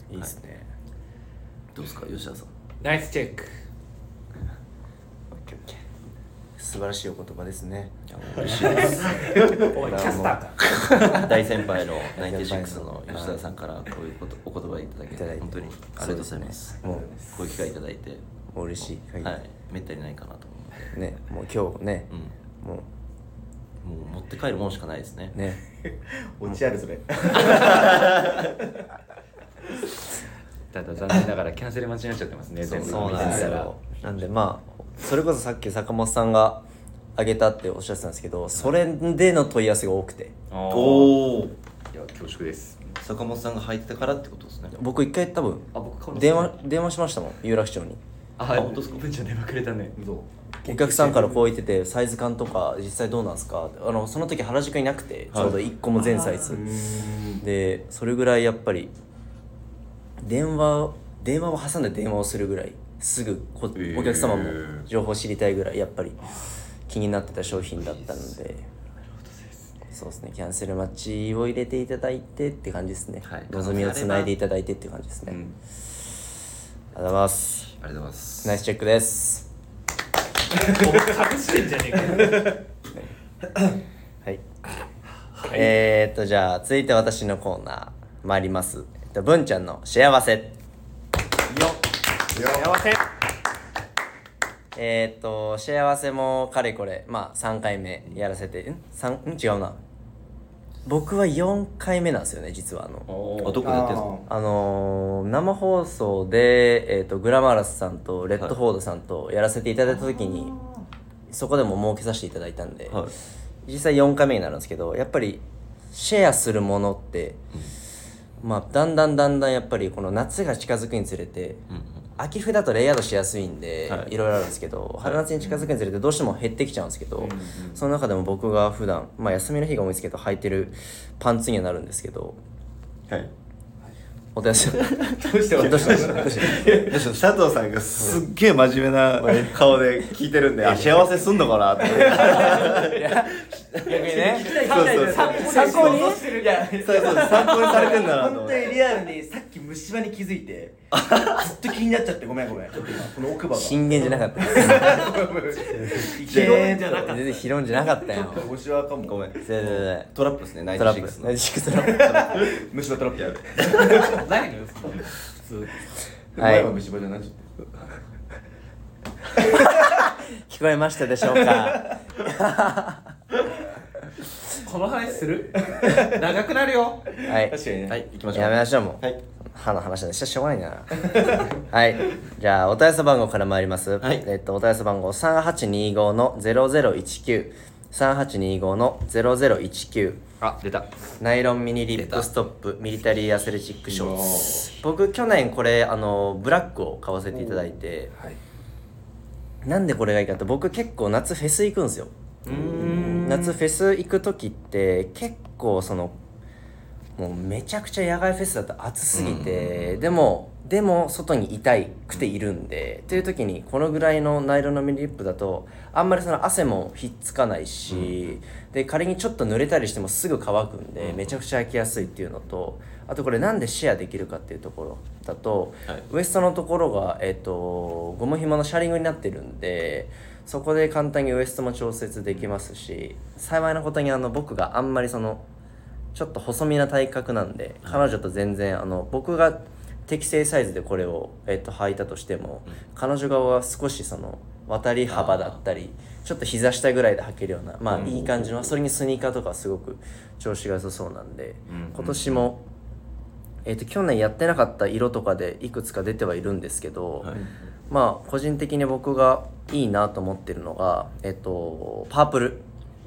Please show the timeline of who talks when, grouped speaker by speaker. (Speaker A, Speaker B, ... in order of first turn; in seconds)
Speaker A: 0.1-0.7, 5.3-5.8, 6.6-8.0, 9.8-11.3, 12.2-13.4, 15.1-17.1, 18.5-19.4, 20.9-22.1, 22.6-22.9, 25.3-25.6, 32.7-36.6, 37.1-40.3, 44.7-48.0, 50.6-56.8, 57.4-58.9, 60.2-68.7, 69.9-75.4, 76.9-77.7, 78.4-79.5, 85.5-90.6, 94.7-99.8, 100.8-103.1, 104.3-110.5, 111.3-113.1, 113.6-117.4, 118.4-121.6, 122.2-132.4, 134.3-136.7, 139.2-139.5, 141.9-144.6, 145.3-146.2, 153.5-155.2, 156.2-158.5, 159.4-160.1, 160.7-162.4, 166.4-166.7, 169.4-173.1, 177.2-177.6, 178.3-190.2, 191.2-198.1, 199.6-202.1, 203.1-206.2, 207.2-235.4, 236.1-252.6, 253.6-257.4, 257.9-262.6
Speaker B: 1.7-2.5, 8.1-10.3, 10.9-18.2, 19.2-21.0, 23.8-25.4, 27.5-28.0, 32.6-33.6, 40.7-41.5, 43.0-44.7, 48.5-49.0, 55.3-55.6, 63.8-64.8, 73.2-74.3, 77.8-78.6, 103.4-104.1, 121.7-122.0, 125.0-125.7, 134.8-143.1, 144.5-146.0, 146.8-148.8, 150.9-151.4, 156.0-157.2, 159.1-161.4, 162.0-162.5, 163.1-164.1, 177.9-179.2, 184.0-184.2, 202.4-203.6, 209.1-210.0, 217.9-218.2, 221.0-221.3, 245.1-245.6, 247.9-248.7, 251.7-252.5
Speaker C: 2.8-3.6, 8.5-10.9, 80.5-82.5, 85.3-85.7, 92.3-93.0, 144.4-147.8, 163.8-165.7, 174.6-177.1
Speaker D: 16.8-17.3, 26.0-28.6, 33.1-33.5, 50.0-50.3, 56.5-57.4, 92.3-92.7, 103.6-104.2, 135.2-137.0, 141.8-143.0, 143.8-157.4, 158.1-159.2, 161.8-164.2, 166.3-167.5, 175.7-176.2, 177.2-178.0, 193.9-194.7, 197.3-197.6, 202.5-203.3
Speaker E: 30.7-33.7, 40.5-41.2, 41.9-43.0, 45.7-46.5, 48.4-50.0, 50.6-51.4, 56.0-56.5, 69.0-69.7, 103.1-103.8, 127.4-127.8, 190.4-190.9, 192.0-192.2, 202.8-203.2